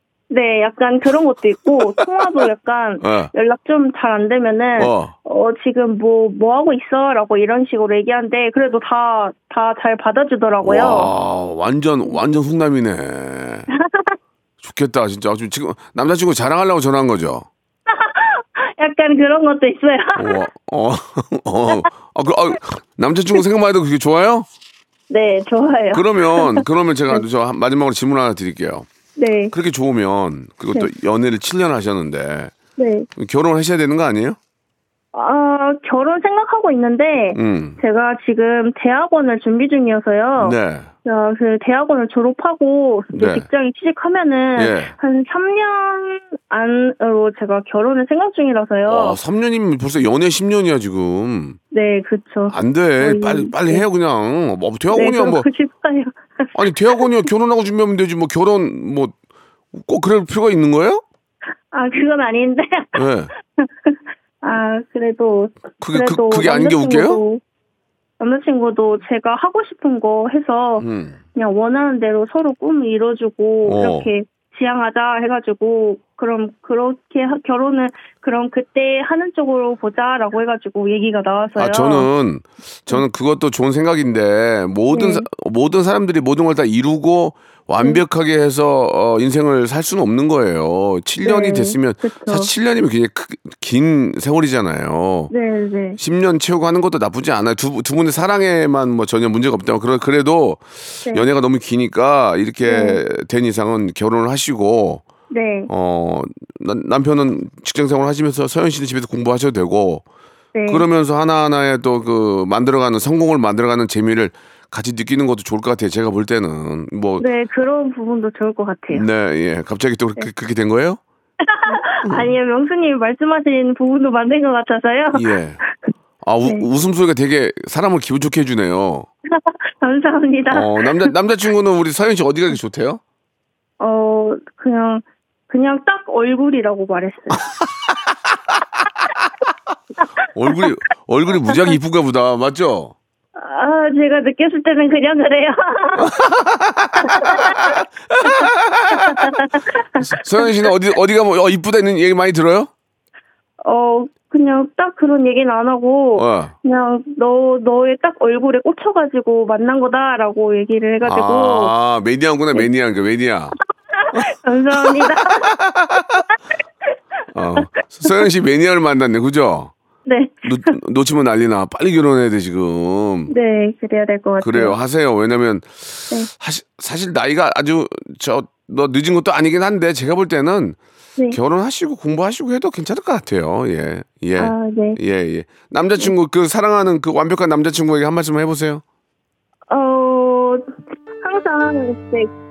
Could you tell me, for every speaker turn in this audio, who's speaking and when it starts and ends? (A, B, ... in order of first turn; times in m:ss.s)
0:00.3-0:11.1 A
0:03.0-0:03.3 B
0:04.8-0:05.1 B
0:10.6-0:13.7 B
0:13.8-0:14.2 A
0:14.6-0:17.5 B
0:17.9-0:20.4 A
0:20.2-0:24.5 B
0:25.1-0:27.2 A
0:25.9-0:28.9 B
0:29.2-0:29.5 A
0:29.5-0:32.5 B
0:32.8-0:33.1 A
0:33.2-0:34.4 B
0:35.1-0:49.2 A
0:37.3-0:37.8 B
0:40.4-0:40.9 B
0:43.1-0:43.5 B
0:44.5-0:44.9 B
0:48.8-0:51.6 B
0:51.7-0:53.8 A
0:52.5-0:55.4 B
0:54.9-0:56.5 A
0:56.5-0:59.1 B
0:59.7-1:01.0 B
1:01.7-1:03.0 A
1:02.9-1:03.3 B
1:03.6-1:07.4 A
1:05.8-1:07.2 B
1:08.2-1:22.1 A
1:10.8-1:11.2 B
1:13.6-1:14.1 B
1:21.6-1:35.3 B
1:24.9-1:25.2 A
1:31.2-1:32.5 A
1:35.3-1:36.0 A
1:36.0-1:45.0 B
1:42.7-1:43.0 A
1:45.3-1:45.7 A
1:45.7-1:50.0 B
1:50.5-1:50.8 A
1:50.7-1:57.2 B
1:57.2-1:59.0 A
1:58.9-2:01.0 B
2:01.4-2:05.2 A
2:01.7-2:02.3 B
2:05.1-2:05.6 B
2:06.2-2:09.1 B
2:09.3-2:11.1 A
2:10.5-2:13.0 B
2:13.8-2:17.4 A
2:20.3-2:22.9 B
2:23.4-2:26.1 A
2:26.0-2:29.3 B
2:27.0-2:30.7 A
2:30.0-2:32.7 B
2:33.6-2:41.7 A
2:36.2-2:36.5 B
2:41.0-2:43.5 B
2:43.9-2:45.5 A
2:44.8-2:46.2 B
2:47.3-2:49.7 B
2:47.6-2:48.2 A
2:50.1-2:50.7 A
2:50.4-2:53.3 B
2:53.3-2:54.8 A
2:54.4-3:00.8 B
3:01.3-3:08.8 B
3:04.4-3:05.0 A
3:09.7-3:12.3 A